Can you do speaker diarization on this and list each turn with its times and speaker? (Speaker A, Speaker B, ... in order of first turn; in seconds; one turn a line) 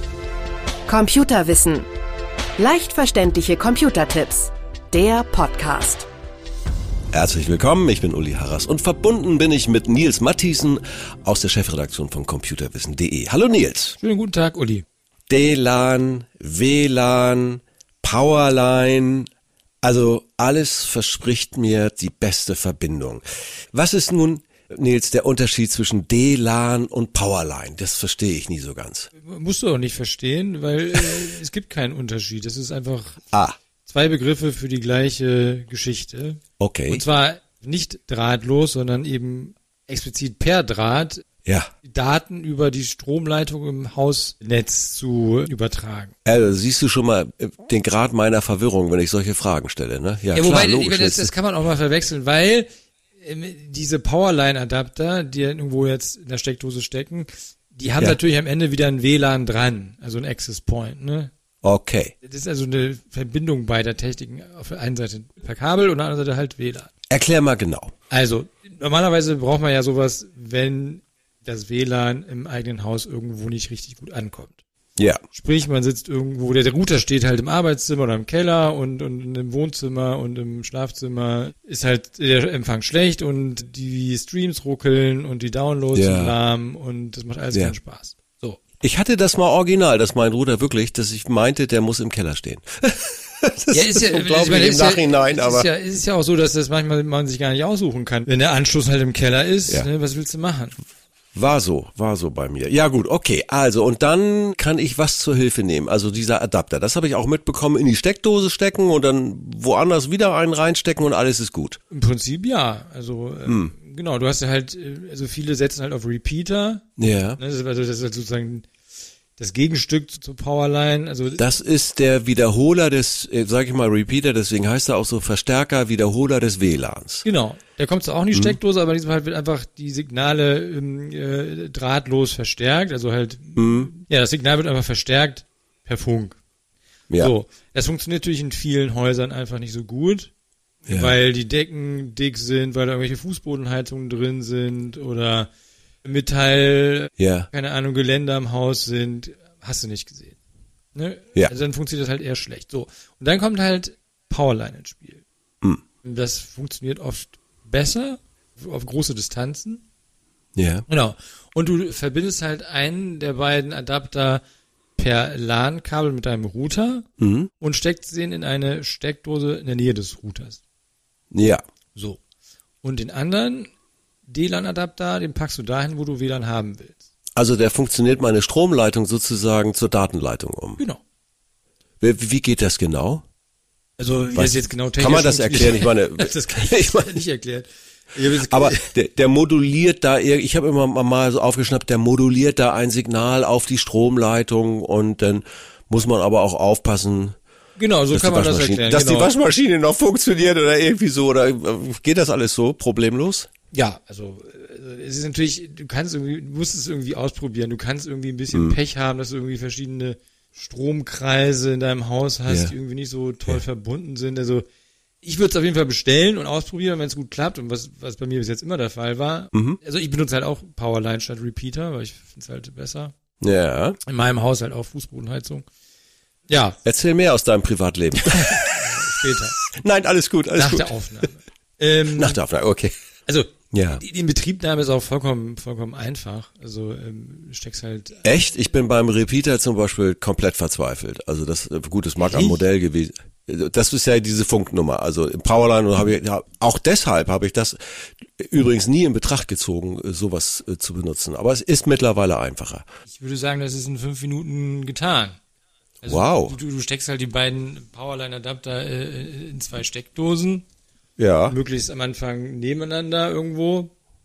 Speaker A: 0.9-1.9
Speaker A: 2.6-6.1
Speaker B: 7.1-14.0
Speaker C: 14.0-14.8
Speaker B: 15.3-19.3
Speaker B: 19.8-29.1
Speaker C: 29.1-33.2
Speaker C: 33.8-41.2
Speaker B: 36.6-37.0
Speaker B: 41.4-41.7
Speaker C: 41.8-46.1
Speaker B: 46.2-51.3
Speaker C: 50.3-61.3
Speaker B: 61.6-62.1
Speaker C: 62.2-66.9
Speaker B: 67.1-67.9
Speaker C: 68.1-74.6
Speaker C: 75.3-88.6
Speaker B: 85.9-86.3
Speaker B: 88.8-95.7
Speaker C: 93.7-100.8
Speaker B: 101.3-111.8
Speaker C: 111.9-116.8
Speaker B: 113.5-113.7
Speaker B: 117.0-117.4
Speaker C: 117.4-118.7
Speaker C: 119.4-121.4
Speaker B: 121.4-127.2
Speaker C: 127.2-136.4
Speaker B: 133.6-133.9
Speaker C: 137.2-140.3
Speaker C: 140.8-145.5
Speaker B: 140.9-141.1
Speaker C: 146.0-150.4
Speaker B: 147.2-147.5
Speaker C: 150.9-155.2
Speaker C: 156.0-159.8
Speaker B: 160.6-160.8
Speaker C: 160.9-164.4
Speaker C: 165.0-167.1
Speaker B: 167.2-167.5
Speaker C: 167.6-170.6
Speaker B: 171.3-171.6
Speaker C: 171.9-172.2
Speaker C: 172.8-173.7
Speaker C: 174.3-177.0
Speaker B: 177.3-180.8
Speaker B: 182.0-183.2
Speaker C: 184.0-188.9
Speaker B: 184.3-187.2
Speaker B: 188.5-197.3
Speaker C: 197.8-199.3
Speaker B: 198.1-203.5
Speaker C: 203.7-214.7
Speaker B: 212.5-212.7
Speaker C: 215.2-223.1
Speaker B: 219.5-219.8
Speaker B: 223.4-224.0
Speaker C: 224.0-225.7
Speaker C: 226.5-226.8
Speaker B: 226.8-230.9
Speaker C: 228.2-229.6
Speaker C: 230.6-232.4
Speaker B: 232.1-232.9
Speaker C: 233.3-238.3
Speaker B: 233.7-234.0
Speaker B: 238.2-247.8
Speaker C: 242.2-242.6
Speaker B: 248.4-252.8
Speaker C: 253.1-255.4
Speaker C: 256.0-260.6
Speaker B: 256.1-256.6
Speaker B: 261.2-261.6
Speaker C: 261.5-263.9